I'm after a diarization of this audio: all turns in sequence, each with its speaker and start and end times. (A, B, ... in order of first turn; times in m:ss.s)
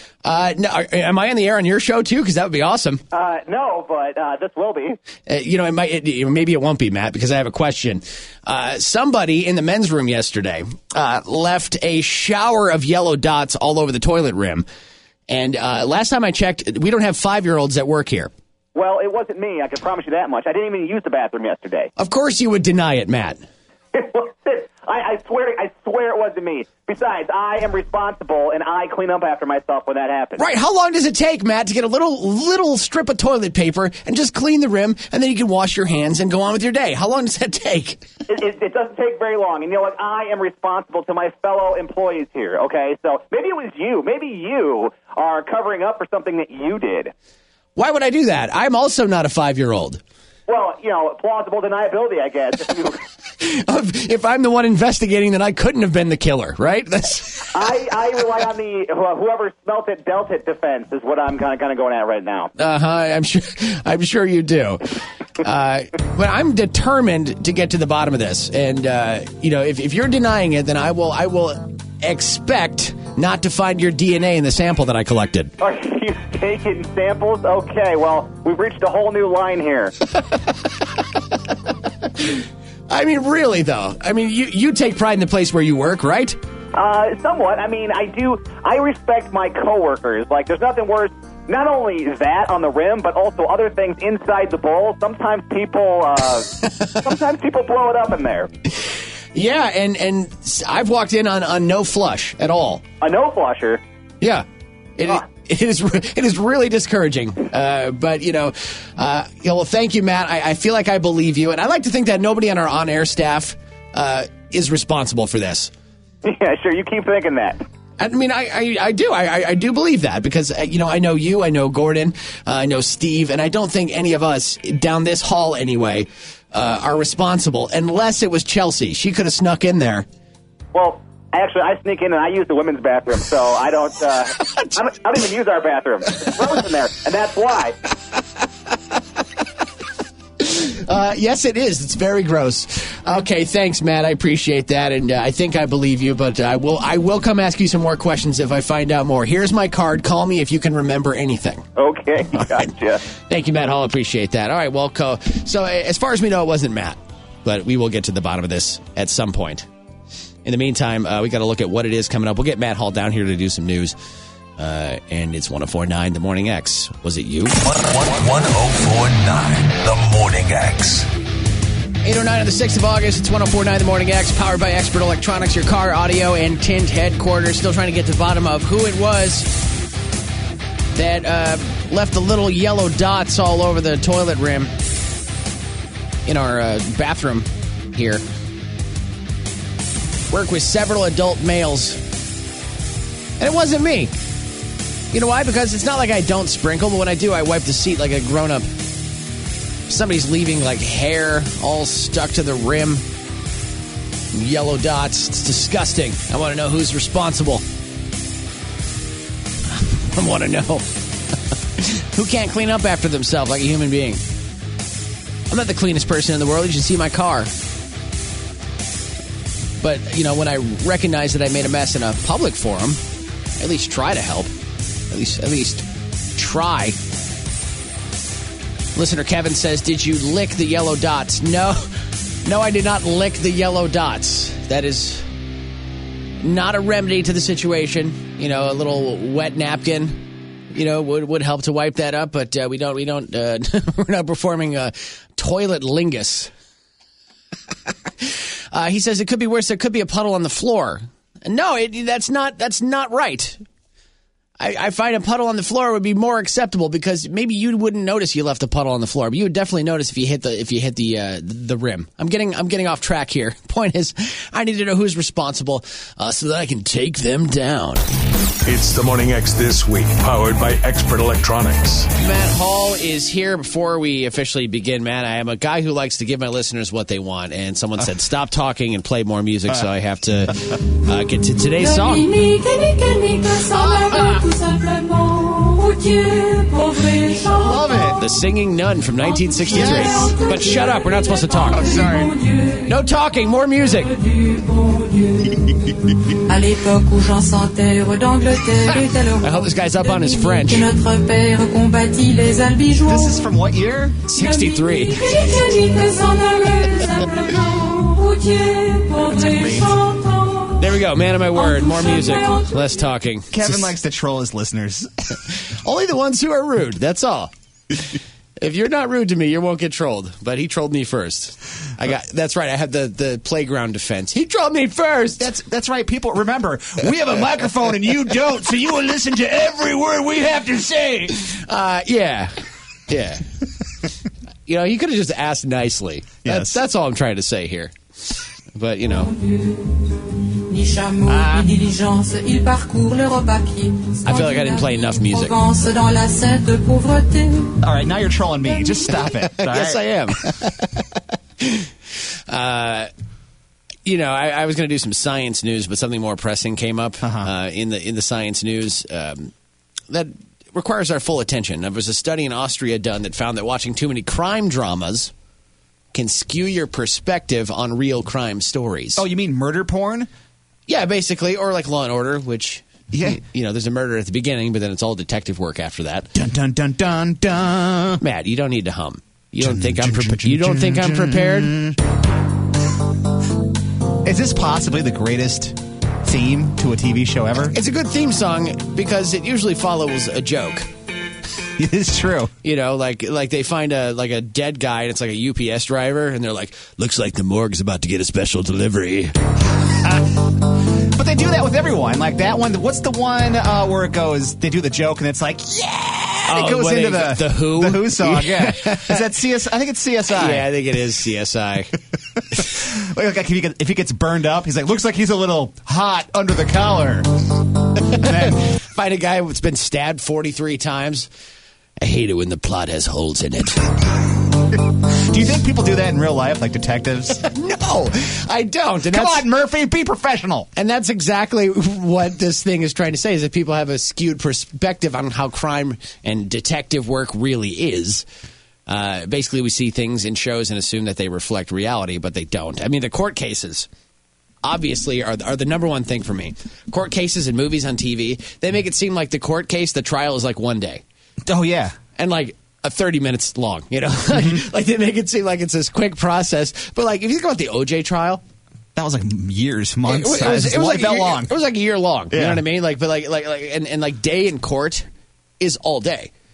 0:00.2-0:03.0 A
0:03.1-0:05.0 B
0:05.3-0:14.7 A
0:15.3-0:18.3 A
0:18.8-0:21.9 B
0:22.0-0:23.4 A
0:23.9-0:30.5 B
0:30.4-0:38.0 A
0:38.3-0:47.1 B
0:47.8-0:50.0 A
0:50.5-0:53.0 B
0:53.4-0:57.6 A
0:57.5-1:02.5 B
1:02.6-1:04.9 A
1:05.4-1:15.5 A
1:15.6-1:19.9 B
1:22.9-1:26.4 A
1:26.8-1:38.5 B
1:39.3-1:42.8 A
1:43.0-1:43.8 B
1:45.0-1:55.7 A
1:56.2-1:57.6 B
1:58.0-2:10.1 A
2:10.7-2:17.8 B
2:20.4-2:31.7 A
2:31.8-2:33.0 B
2:32.4-2:39.7 A
2:40.4-2:44.0 A
2:44.6-2:47.6 A
2:47.8-2:51.1 C
2:52.0-2:59.5 A
3:00.9-3:04.7 A
3:06.3-3:08.2 A
3:10.3-3:12.0 A
3:13.4-3:14.1 A
3:15.1-3:18.7 A
3:19.9-3:23.0 A
3:24.3-3:27.6 A
3:29.7-3:30.9 A
3:31.8-3:34.2 A
3:35.5-3:37.5 A
3:39.8-3:43.0 A
3:43.6-3:44.5 A
3:45.1-3:47.0 A
3:49.0-3:51.9 A
3:52.4-3:55.3 A
3:56.4-4:00.2 A
4:00.7-4:06.5 A
4:08.2-4:13.6 A
4:14.6-4:28.0 A
4:28.6-4:32.1 C
4:32.2-4:42.3 A
4:41.8-4:47.8 D
4:43.7-4:44.4 E
4:47.5-4:48.2 E
4:48.2-4:51.9 A
4:49.7-4:50.3 E
4:49.7-4:52.8 D
4:51.7-4:52.3 E
4:52.9-4:54.1 A
4:54.2-4:55.5 D
4:56.5-5:03.4 D
4:59.4-5:00.9 A
5:03.0-5:04.3 E
5:04.3-5:05.4 A
5:04.4-5:10.8 D
5:09.4-5:09.9 E
5:10.8-5:13.7 A
5:11.6-5:12.8 D
5:13.5-5:15.1 E
5:15.6-5:17.5 A
5:18.6-5:25.5 A
5:25.4-5:31.4 E
5:31.3-5:32.6 A
5:33.1-5:33.4 A
5:34.7-5:38.0 A
5:36.4-5:36.8 E
5:38.7-5:39.3 A
5:40.7-5:47.8 D
5:41.3-5:41.7 E
5:44.2-5:45.6 A
5:47.8-5:50.5 E
5:49.5-5:50.8 A
5:51.6-5:51.9 A
5:52.5-5:53.1 A
5:54.0-5:59.5 A
5:57.2-5:57.5 E
6:00.1-6:05.3 A
6:06.1-6:09.2 A
6:09.2-6:10.3 E
6:10.9-6:16.3 A
6:13.1-6:13.4 E
6:16.3-6:18.2 E
6:18.2-6:21.8 A
6:19.6-6:22.0 E
6:24.2-6:27.8 E
6:27.7-6:30.9 A
6:31.8-6:32.5 E
6:32.6-6:39.3 A
6:41.0-6:50.7 E
6:46.5-6:49.3 A
6:50.3-6:51.9 A
6:52.4-6:57.3 E
6:58.1-6:58.6 E
6:58.7-7:01.3 A
7:02.0-7:03.9 A
7:05.3-7:07.4 E
7:07.4-7:09.4 A
7:09.1-7:10.7 E
7:10.8-7:18.2 A
7:18.9-7:23.9 A
7:24.6-7:31.0 A
7:31.5-7:32.0 E
7:32.2-7:38.4 A
7:39.0-7:41.6 E
7:40.1-7:45.1 A
7:42.3-7:42.6 E
7:45.6-7:46.3 A